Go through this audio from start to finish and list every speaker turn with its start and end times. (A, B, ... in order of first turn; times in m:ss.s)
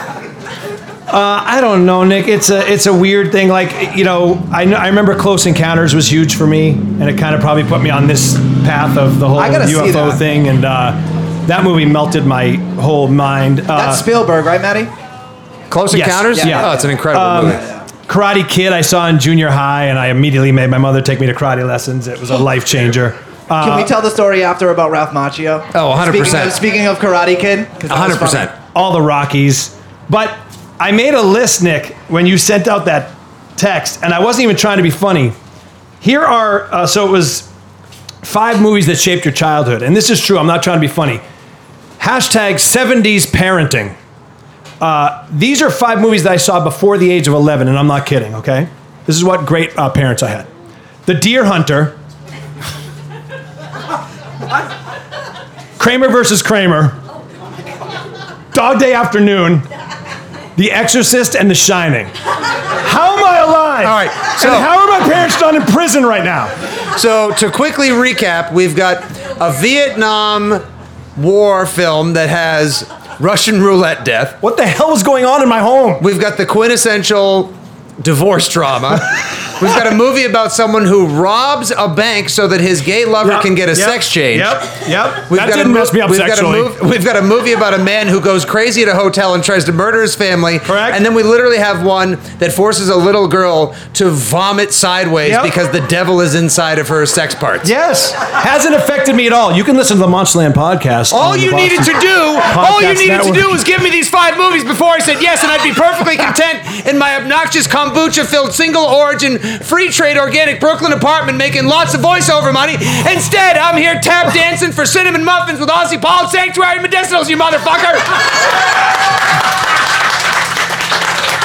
0:01.1-0:14.0 A
0:09.3-0:10.2 B
0:13.7-0:14.9 B
0:15.7-0:17.6 C
0:15.9-0:23.9 A
0:16.3-0:16.9 B
0:17.5-0:17.8 B
0:23.6-0:28.5 B
0:25.7-0:26.6 C
0:27.9-0:28.5 C
0:28.7-0:35.3 A
0:36.0-0:37.5 A
0:38.2-0:41.2 A
0:42.0-0:44.0 A
0:44.8-0:50.5 A
0:51.0-0:52.0 A
0:55.8-0:57.0 A
0:58.5-0:59.6 A
1:00.6-1:02.1 A
1:02.8-1:06.5 A
1:03.8-1:04.7 C
1:06.9-1:10.6 C
1:11.2-1:14.4 C
1:14.4-1:16.0 A
1:16.0-1:24.7 C
1:23.2-1:26.7 A
1:25.3-1:37.7 C
1:30.6-1:31.0 A
1:35.2-1:35.5 A
1:37.6-1:41.9 A
1:41.1-1:58.4 C
1:42.5-1:43.6 A